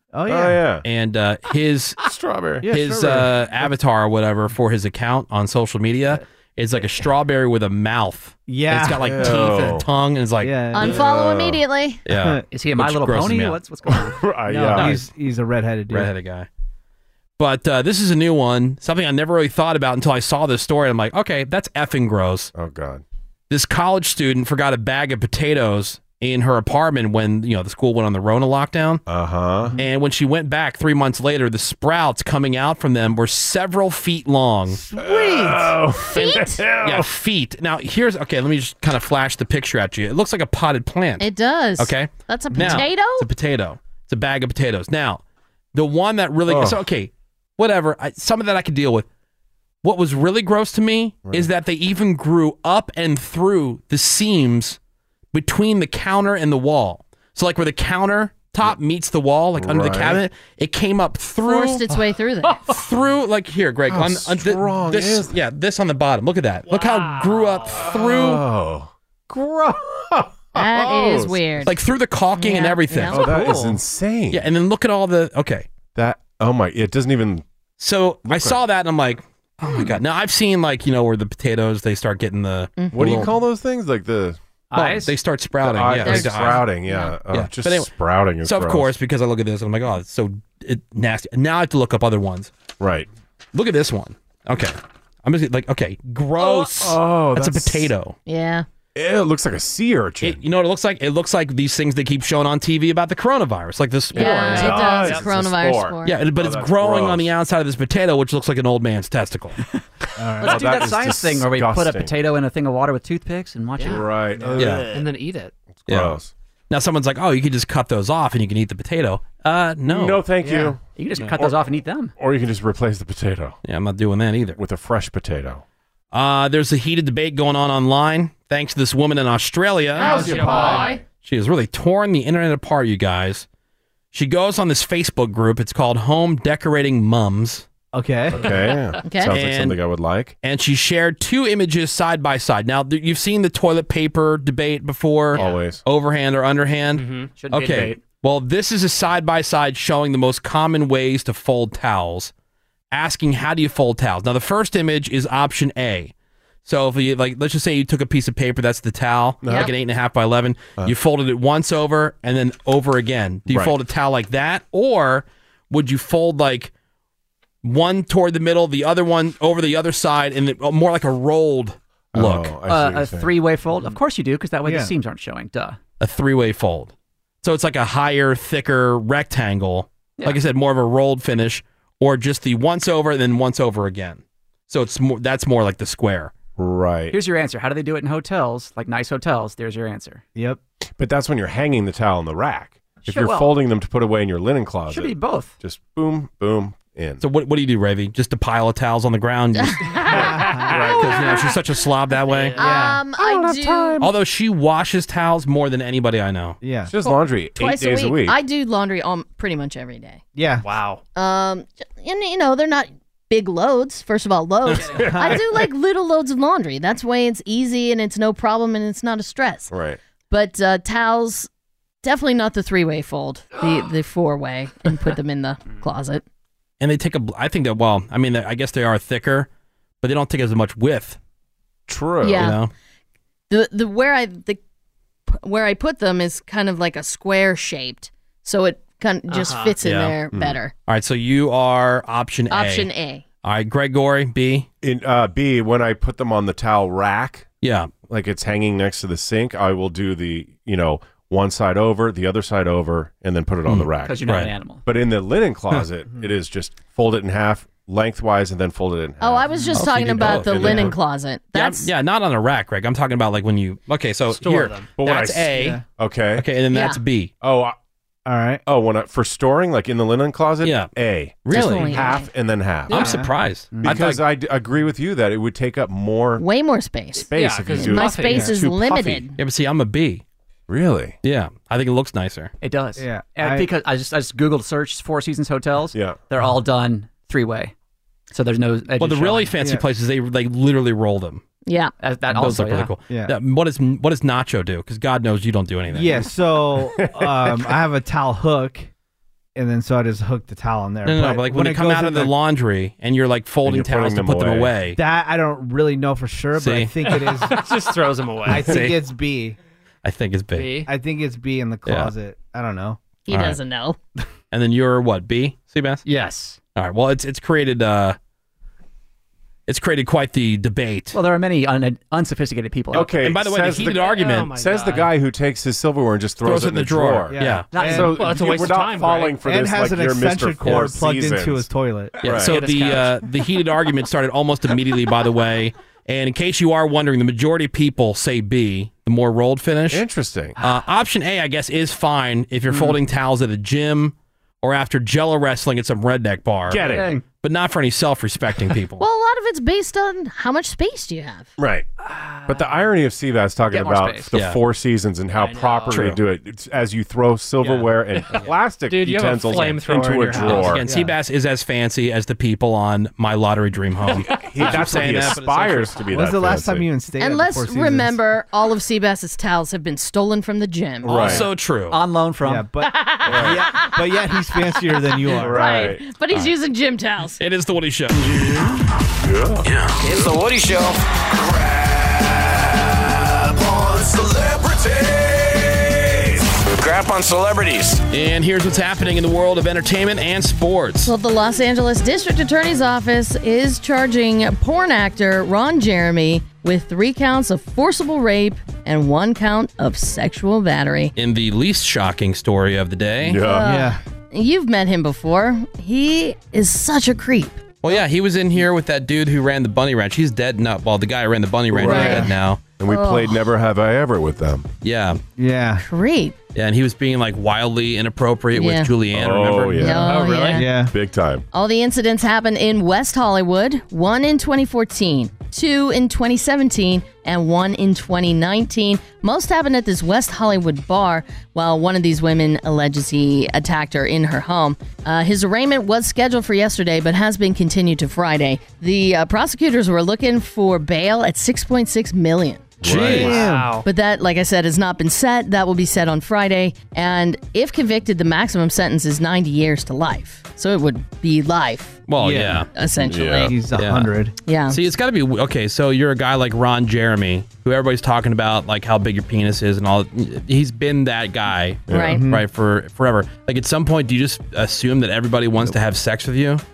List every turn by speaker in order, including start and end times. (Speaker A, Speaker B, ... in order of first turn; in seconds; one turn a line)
Speaker A: 0.1-0.6
Speaker B: 0.3-0.8
Speaker C: 0.8-2.0
Speaker B: 2.0-2.7
Speaker A: 2.6-3.7
Speaker C: 2.6-10.6
Speaker A: 8.5-9.4
Speaker B: 9.0-9.8
Speaker A: 10.4-11.0
Speaker D: 10.7-12.0
Speaker B: 10.8-11.6
Speaker C: 12.1-13.6
Speaker A: 12.1-12.4
Speaker E: 12.5-14.2
Speaker B: 14.0-15.0
Speaker F: 14.5-14.9
Speaker A: 14.6-16.1
Speaker C: 14.7-15.1
Speaker C: 15.9-16.5
Speaker C: 17.4-22.5
Speaker B: 22.5-23.0
Speaker C: 23.5-29.0
Speaker B: 29.1-29.7
Speaker C: 29.8-34.8
Speaker A: 34.9-35.8
Speaker B: 34.9-37.1
Speaker D: 36.1-36.6
Speaker C: 36.8-45.2
Speaker D: 41.2-43.3
Speaker C: 45.7-49.0
Speaker B: 46.5-46.8
Speaker C: 49.8-54.8
Speaker C: 55.3-61.9
Speaker B: 59.6-60.2
Speaker D: 61.4-62.7
Speaker C: 62.6-68.4
Speaker B: 63.9-65.3
Speaker F: 66.7-67.7
Speaker B: 67.7-71.7
Speaker D: 70.5-71.8
Speaker C: 71.6-73.3
Speaker D: 72.3-73.3
Speaker B: 73.1-74.5
Speaker A: 73.3-73.7
Speaker C: 74.3-75.7
Speaker B: 75.9-77.4
Speaker C: 77.8-83.3
Speaker B: 78.2-78.6
Speaker D: 82.8-83.3
Speaker B: 82.9-84.4
Speaker E: 84.7-85.1
Speaker C: 84.7-86.7
Speaker B: 85.6-88.9
Speaker D: 86.0-87.2
Speaker C: 87.3-87.9
Speaker C: 88.4-92.5
Speaker B: 92.8-93.1
Speaker C: 93.5-98.2
Speaker B: 96.7-97.9
Speaker D: 98.2-98.7
Speaker B: 98.9-100.4
Speaker C: 100.2-105.0
Speaker D: 104.1-106.2
Speaker B: 104.1-107.3
Speaker F: 104.9-105.2
Speaker C: 106.0-109.6
Speaker A: 110.2-110.7
Speaker B: 110.4-112.1
Speaker E: 110.4-114.1
Speaker F: 113.8-114.0
Speaker B: 113.8-115.0
Speaker A: 114.3-114.8
Speaker C: 114.6-114.8
Speaker F: 114.9-115.5
Speaker B: 115.8-116.3
Speaker C: 115.9-116.2
Speaker C: 116.7-120.2
Speaker B: 119.8-123.6
Speaker A: 120.4-120.8
Speaker E: 121.0-122.1
Speaker C: 123.6-124.6
Speaker B: 124.6-125.6
Speaker C: 126.1-130.3
Speaker F: 130.0-131.0
Speaker A: 130.0-130.9
Speaker B: 130.0-131.0
Speaker C: 131.2-133.4
Speaker C: 134.1-137.6
Speaker A: 137.9-138.5
Speaker B: 138.3-140.3
Speaker D: 139.0-139.3
Speaker C: 139.3-139.8
Speaker C: 140.4-152.3
Speaker B: 145.3-145.8
Speaker F: 147.0-147.3
Speaker E: 147.3-148.0
Speaker C: 152.9-156.1
Speaker C: 156.6-166.7
Speaker B: 159.4-159.7
Speaker D: 159.4-159.7
Speaker B: 163.5-163.7
Speaker C: 167.6-172.5
Speaker B: 172.1-173.4
Speaker E: 172.7-175.8
Speaker A: 174.6-174.9
Speaker C: 176.0-186.3
Speaker B: 186.6-187.2
Speaker E: 187.1-190.2
Speaker B: 191.0-197.2
Speaker E: 193.0-193.6
Speaker E: 194.9-195.5
Speaker C: 197.2-200.0
Speaker D: 199.5-201.4
Speaker A: 200.1-200.9
Speaker B: 200.1-201.3
Speaker C: 200.8-202.6
Speaker F: 202.3-202.9
Speaker D: 202.6-204.0
Speaker A: 202.6-203.0
Speaker B: 203.1-204.1
Speaker C: 204.0-206.6
Speaker A: 206.6-206.9
Speaker B: 206.9-208.4
Speaker D: 207.0-210.2
Speaker A: 210.3-210.7
Speaker F: 210.6-211.0
Speaker D: 211.2-219.7
Speaker B: 214.9-215.6
Speaker A: 215.0-215.4
Speaker B: 219.7-220.0
Speaker D: 220.3-221.5
Speaker D: 222.0-226.2
Speaker C: 226.8-229.5
Speaker C: 230.0-231.2
Speaker B: 231.9-232.5
Speaker D: 232.2-232.6
Speaker C: 232.3-232.7
Speaker D: 233.5-234.6
Speaker D: 235.3-240.7
Speaker F: 239.3-239.7
Speaker C: 239.8-240.2
Speaker B: 240.3-240.6
Speaker C: 240.9-242.9
Speaker D: 242.5-243.2
Speaker C: 243.4-244.7
Speaker B: 244.8-247.5
Speaker C: 247.6-247.9
Speaker B: 248.1-254.3
Speaker C: 253.7-254.5
Speaker E: 254.0-254.8
Speaker B: 254.8-260.9
Speaker D: 259.2-261.9
Speaker C: 259.7-260.9
Speaker C: 261.5-265.8
Speaker F: 264.3-264.9
Speaker B: 265.0-266.4
Speaker A: 265.5-265.8
Speaker C: 266.4-267.3
Speaker D: 266.7-267.0
Speaker B: 267.4-267.7
Speaker A: 268.2-268.6
Speaker B: 268.6-273.2
Speaker C: 270.6-270.9
Speaker C: 271.4-272.1
Speaker D: 271.5-272.3
Speaker C: 272.9-274.2
Speaker A: 272.9-274.0
Speaker B: 273.8-276.4
Speaker D: 276.4-279.4
Speaker B: 277.1-279.2
Speaker F: 277.3-278.5
Speaker C: 279.4-280.2
Speaker B: 280.7-281.2
Speaker C: 281.2-282.5
Speaker E: 282.6-287.7
Speaker A: 283.0-283.7
Speaker B: 285.9-286.2
Speaker E: 288.3-289.6
Speaker C: 289.0-291.4
Speaker A: 289.6-289.8
Speaker D: 291.6-291.9
Speaker E: 292.0-292.9
Speaker C: 292.3-296.3
Speaker A: 292.5-293.4
Speaker A: 295.9-298.9
Speaker B: 296.8-297.7
Speaker A: 299.6-302.3
Speaker C: 301.1-305.0
Speaker B: 303.6-304.8
Speaker A: 304.9-307.7
Speaker C: 306.6-306.9
Speaker F: 307.1-308.8
Speaker A: 308.4-309.6
Speaker C: 308.5-309.0
Speaker C: 310.0-310.7
Speaker F: 310.5-310.9
Speaker A: 310.9-313.0
Speaker C: 311.9-312.1
Speaker D: 313.3-314.0
Speaker C: 313.3-313.6
Speaker C: 314.5-316.0
Speaker F: 316.1-316.6
Speaker C: 316.7-318.2
Speaker C: 319.7-321.2
Speaker E: 321.1-323.2
Speaker B: 322.9-331.7
Speaker C: 323.0-324.5
Speaker F: 323.8-325.1
Speaker C: 326.4-327.7
Speaker A: 327.3-328.2
Speaker E: 327.7-328.2
Speaker F: 327.9-329.4
Speaker A: 329.4-332.2
Speaker C: 332.2-340.0
Speaker B: 332.2-332.6
Speaker F: 332.4-333.2
Speaker B: 339.9-340.6
Speaker C: 340.6-349.0
Speaker B: 346.7-347.1
Speaker E: 346.8-347.2
Speaker D: 349.0-351.5
Speaker B: 351.6-351.9
Speaker E: 352.0-352.7
Speaker B: 352.5-360.8
Speaker E: 353.7-354.3
Speaker F: 355.3-356.0
Speaker C: 355.9-356.2
Speaker F: 358.3-360.8
Speaker C: 360.3-365.9
Speaker A: 360.8-361.1
Speaker B: 364.1-366.9
Speaker A: 366.1-368.2
Speaker D: 367.2-371.4
Speaker B: 371.0-371.5
Speaker C: 371.1-372.0
Speaker E: 371.9-372.7
Speaker A: 372.4-375.9
Speaker D: 373.0-373.2
Speaker B: 373.2-373.6
Speaker B: 375.3-376.1
Speaker D: 375.4-377.4
Speaker C: 377.4-378.5
Speaker B: 379.2-379.7
Speaker G: 379.6-388.0
Speaker C: 388.1-391.1
Speaker D: 391.0-401.1
Speaker C: 401.1-403.4
Speaker B: 403.2-403.7
Speaker D: 403.4-408.0
Speaker A: 403.6-404.0
Speaker C: 407.8-412.6
Speaker B: 411.7-412.2
Speaker A: 411.8-412.3
Speaker D: 411.8-412.3
Speaker B: 412.8-414.7
Speaker D: 412.9-413.5
Speaker C: 414.8-415.2
Speaker A: 415.4-415.8
Speaker D: 415.8-416.4
Speaker C: 416.5-420.0
Speaker D: 418.5-418.9
Speaker B: 419.1-420.2
Speaker D: 419.8-420.8
Speaker F: 420.0-420.6
Speaker A: 420.5-420.9
Speaker B: 420.8-421.4
Speaker D: 421.5-442.7
Speaker B: 442.8-443.4
Speaker C: 442.8-443.3
Speaker A: 443.0-443.8
Speaker F: 443.2-443.8
Speaker D: 443.8-452.0
Speaker C: 452.1-452.7
Speaker A: 452.2-452.7
Speaker D: 452.7-453.5
Speaker B: 453.0-453.5
Speaker A: 453.4-454.3
Speaker C: 453.7-454.1
Speaker D: 454.4-454.8
Speaker C: 454.7-466.6
Speaker B: 461.9-462.2
Speaker D: 461.9-462.2
Speaker A: 462.0-462.4